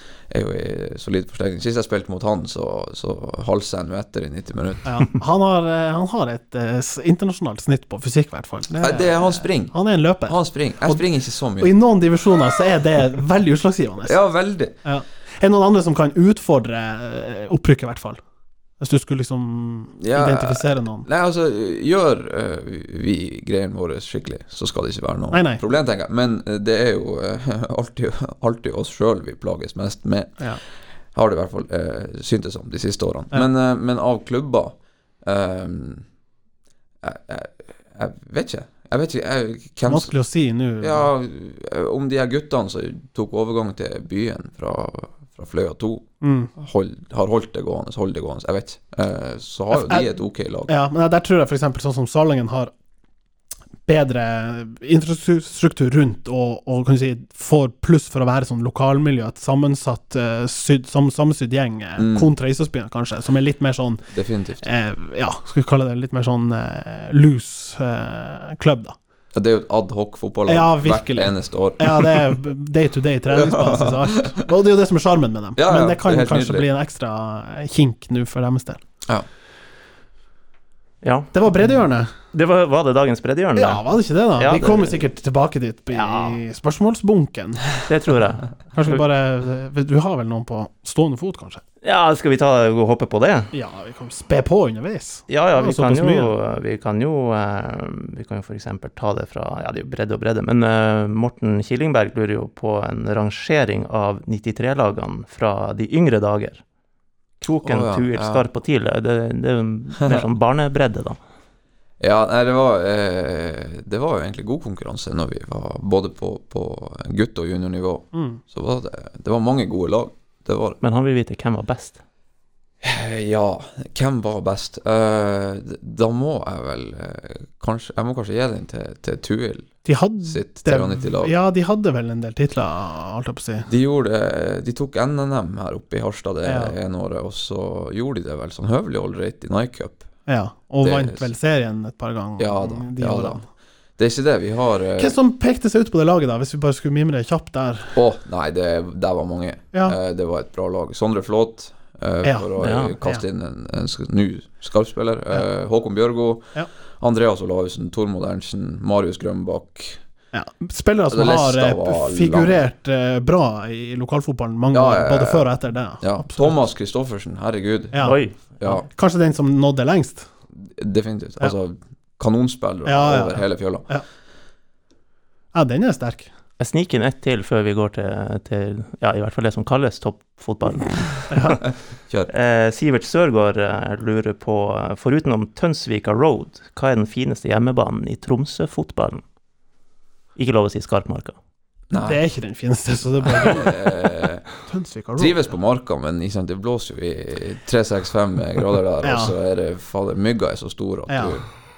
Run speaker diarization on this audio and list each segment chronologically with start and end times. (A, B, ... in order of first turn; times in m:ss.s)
0:00.3-0:04.9 A
0:04.8-0:11.0 B
0:08.8-0:09.7 A
0:10.2-0:11.7 A
0:11.6-0:14.2 B
0:14.0-0:14.7 A
0:14.8-0:18.2 B
0:18.8-0:21.1 B
0:20.0-0:30.4 A
0:25.3-0:25.6 B
0:31.1-0:36.0 A
0:37.0-0:40.1 A
0:39.9-0:41.1 B
0:40.8-0:50.7 A
0:46.2-0:46.5 B
0:49.7-0:50.1 B
0:50.7-0:52.7 B
0:53.8-1:04.0 B
1:02.0-1:02.3 A
1:04.1-1:04.6 A
1:04.6-1:09.0 B
1:09.3-1:12.3 A
1:10.5-1:18.8 B
1:13.3-1:14.2 A
1:15.6-1:16.6 A
1:21.0-1:21.3 C
1:21.3-1:22.1 B
1:22.3-1:23.8 C
1:23.6-1:27.7 B
1:24.4-1:25.0 C
1:25.9-1:26.4 C
1:27.8-1:29.0 C
1:28.7-1:31.6 B
1:31.8-1:33.5 C
1:33.5-1:36.3 B
1:35.3-1:46.6 C
1:47.4-1:51.2 C
1:47.6-1:48.4 A
1:52.0-2:00.8 A
1:58.1-1:58.4 B
2:00.8-2:02.0 C
2:02.8-2:11.3 A
2:09.8-2:13.7 B
2:13.7-2:20.0 A
2:16.4-2:16.8 B
2:20.3-2:23.4 B
2:20.8-2:21.3 A
2:22.4-2:23.4 A
2:24.0-2:25.2 A
2:25.0-2:28.0 B
2:28.0-2:40.0 A
2:32.2-2:32.5 B
2:32.6-2:33.0 C
2:40.3-2:46.6 B
2:41.1-2:42.6 A
2:44.7-2:45.4 A
2:46.0-2:48.1 A
2:47.9-2:50.3 B
2:48.0-2:48.4 C
2:48.6-2:48.8 A
2:50.6-2:53.9 A
2:52.8-2:54.0 B
2:55.5-2:56.3 B
2:56.6-3:01.5 C
3:01.3-3:01.6 B
3:02.3-3:09.2 C
3:10.4-3:11.4 C
3:11.9-3:12.2 A
3:12.0-3:13.9 B
3:13.3-3:14.5 A
3:14.6-3:15.4 B
3:15.2-3:21.4 A
3:19.0-3:19.3 B
3:21.1-3:21.4 B